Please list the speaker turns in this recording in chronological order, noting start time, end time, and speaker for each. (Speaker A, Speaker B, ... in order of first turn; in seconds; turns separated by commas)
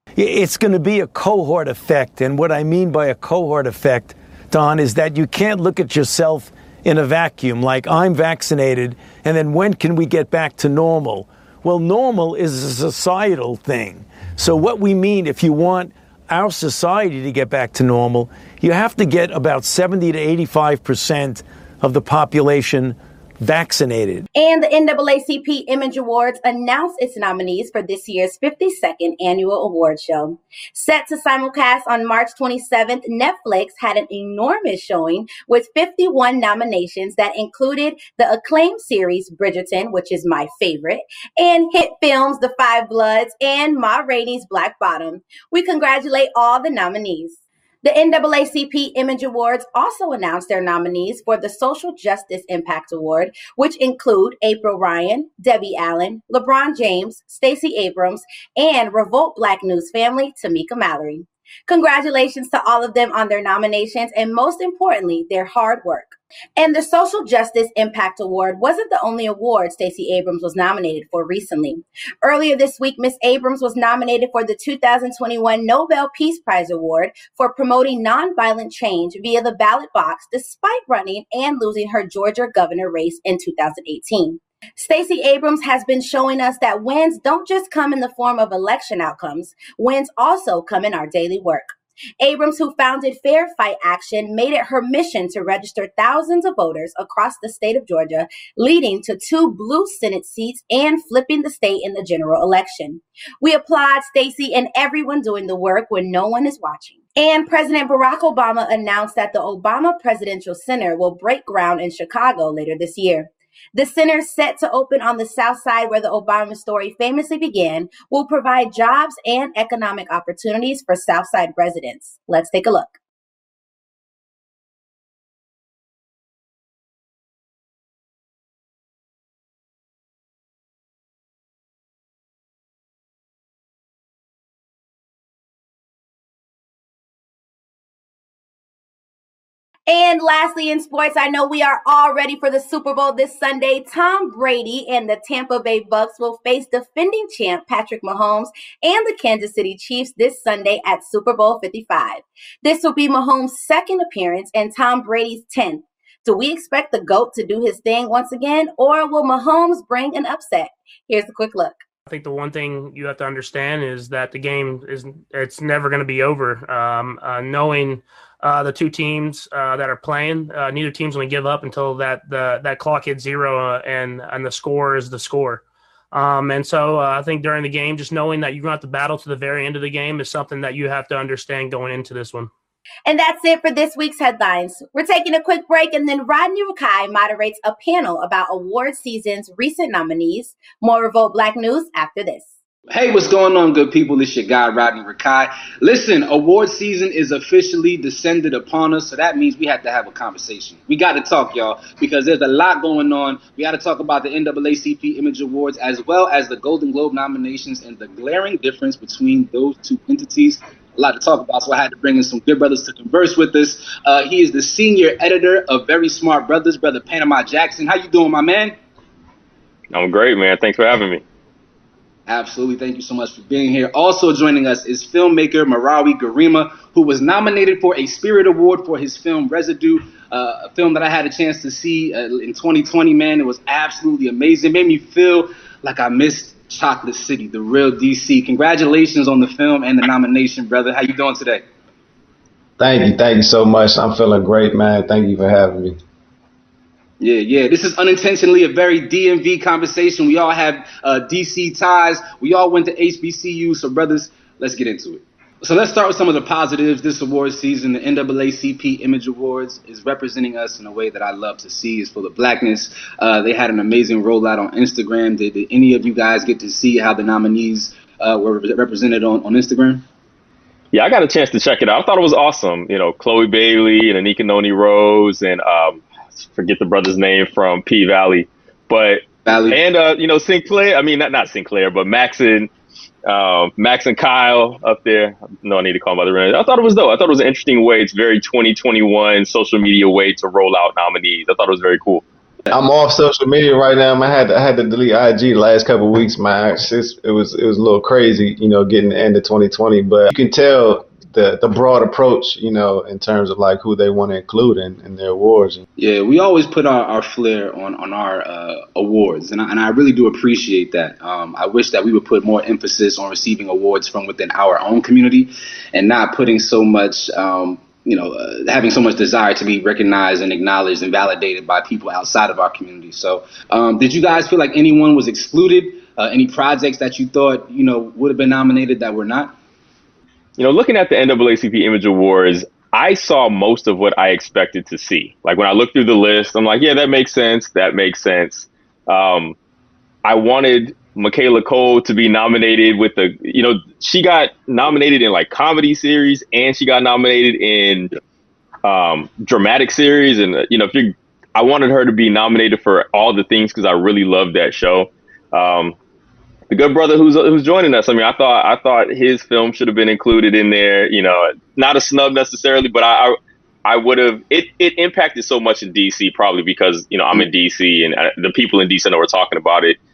Speaker A: 0.1-24.2, Speaker B: 24.3-123.0, Speaker B: 139.9-161.8, Speaker C: 162.1-182.5, Speaker B: 183.1-192.5, Speaker D: 192.9-218.8, Speaker E: 219.9-221.2, Speaker D: 222.3-241.6, Speaker F: 242.8-246.0, Speaker D: 247.2-270.0, Speaker E: 270.9-282.7, Speaker D: 279.4-279.8, Speaker E: 283.2-292.2, Speaker F: 292.7-305.8, Speaker D: 306.0-329.5, Speaker E: 330.6-339.5, Speaker E: 340.2-348.1, Speaker E: 348.8-355.9, Speaker E: 356.7-370.0